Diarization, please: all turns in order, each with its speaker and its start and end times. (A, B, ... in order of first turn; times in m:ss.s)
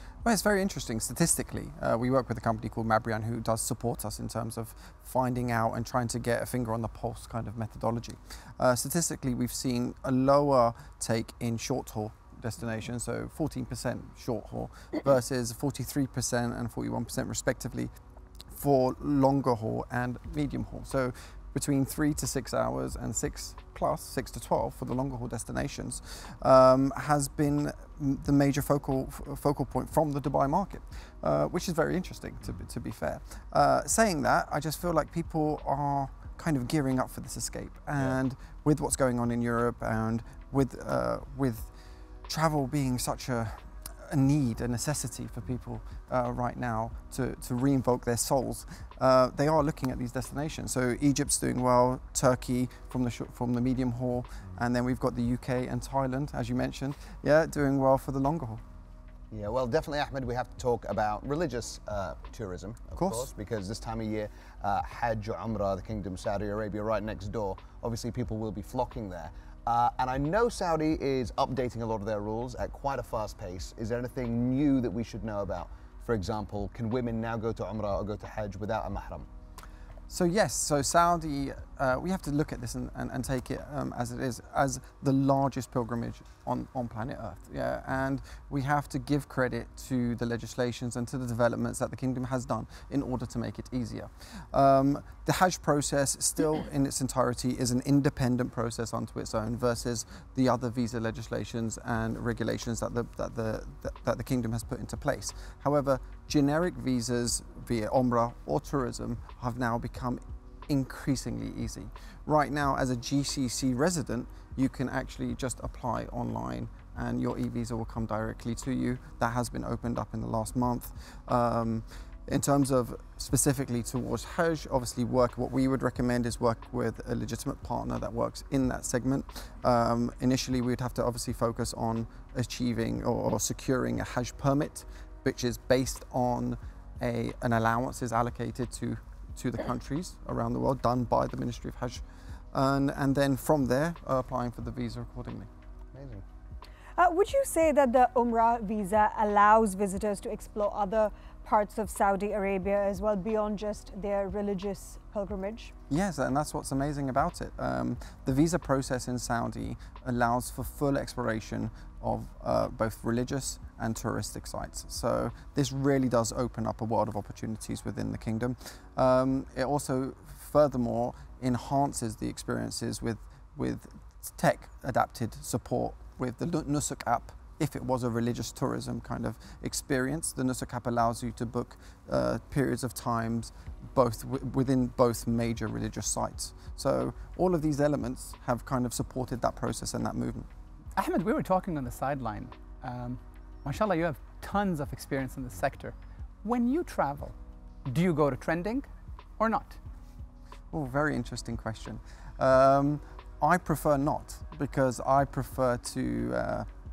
0:00.2-0:17.9 A
0:18.6-0:41.7 A
0:42.3-0:58.6 A
0:59.3-1:19.3 B
1:03.0-1:03.3 A
1:20.1-2:25.5 A
2:25.9-2:26.2 B
2:27.0-2:35.7 C
2:35.9-3:10.5 A
3:11.0-3:17.4 D
3:17.9-3:19.8 D
3:20.7-3:26.7 A